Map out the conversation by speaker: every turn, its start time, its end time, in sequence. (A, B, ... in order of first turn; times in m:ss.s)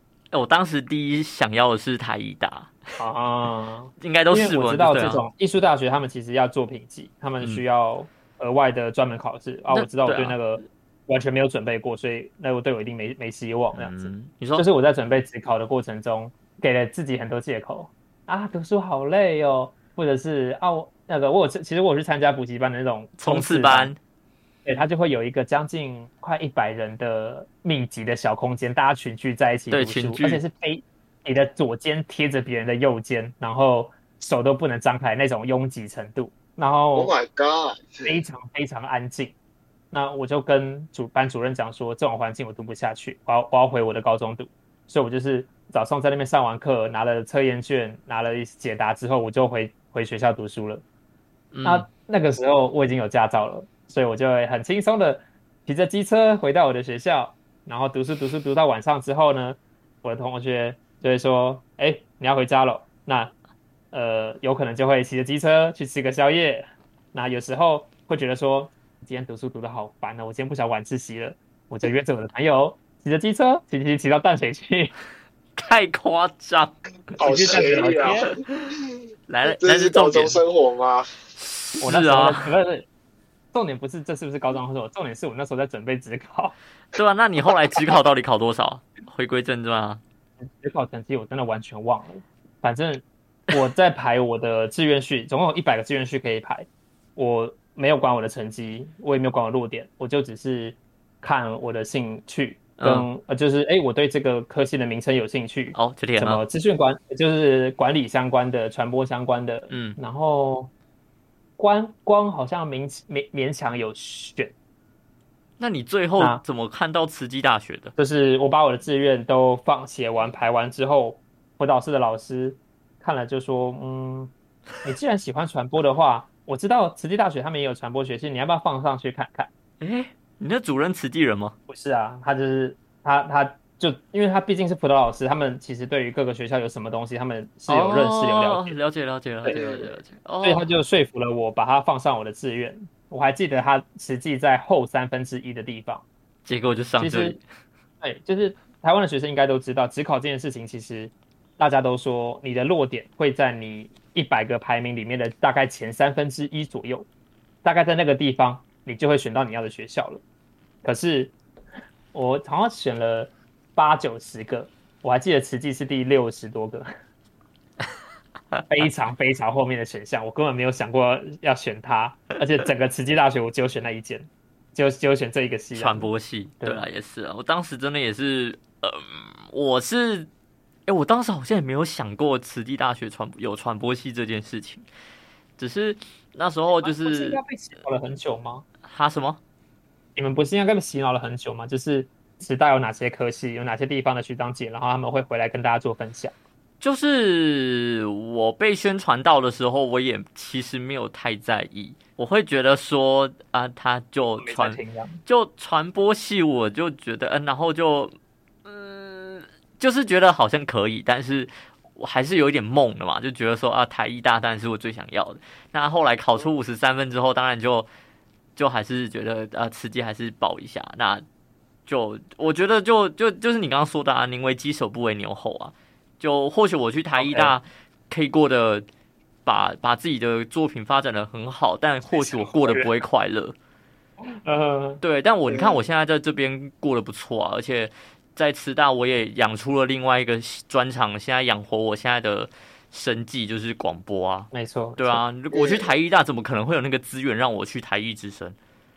0:00.3-0:02.7 A
0:03.0-0:23.9 B
0:04.0-0:05.2 A
0:09.7-0:10.4 A
0:13.8-0:14.6 A
0:23.2-0:24.0 A
0:24.7-0:37.1 B
0:29.7-0:30.4 A
0:36.9-0:38.2 C
0:38.0-0:39.4 B
0:39.9-0:50.8 B
0:51.5-0:51.9 A
0:51.6-1:03.3 B
1:03.9-1:14.9 B
1:15.6-1:18.3 A
1:17.2-1:18.9 C
1:17.2-1:18.3 B
1:19.3-1:20.4 A
1:19.4-1:21.2 C
1:21.4-1:22.5 A
1:21.8-1:22.9 B
1:23.5-1:26.6 B
1:26.9-1:30.0 A
1:30.4-1:50.7 B
1:42.8-1:43.1 A
1:45.7-1:46.4 A
1:49.7-1:50.0 A
1:51.6-1:54.5 B
1:55.6-1:57.9 A
1:56.2-1:56.4 B
1:58.0-2:09.5 B
2:09.8-2:11.6 A
2:11.7-2:18.8 B
2:17.7-2:20.6 A
2:19.4-2:26.0 B
2:26.5-2:27.4 A
2:27.0-2:27.4 B
2:28.0-2:37.1 B
2:37.6-2:40.2 B
2:40.8-2:41.3 B
2:42.1-2:46.9 B
2:48.7-2:56.9 B
2:55.7-3:00.3 A
3:00.9-3:04.9 A
3:05.6-3:07.4 A
3:06.7-3:08.6 B
3:08.8-3:09.4 A
3:10.2-3:16.3 B
3:16.8-3:28.1 A
3:24.4-3:25.2 B
3:28.6-3:37.9 A
3:38.6-3:41.2 A
3:41.9-3:48.8 A
3:47.2-3:47.5 B
3:49.4-3:53.6 A
3:52.2-3:52.9 B
3:54.3-3:55.0 B
3:55.0-4:08.6 A
3:55.5-3:55.8 C
4:04.5-4:05.2 B
4:05.5-4:05.9 C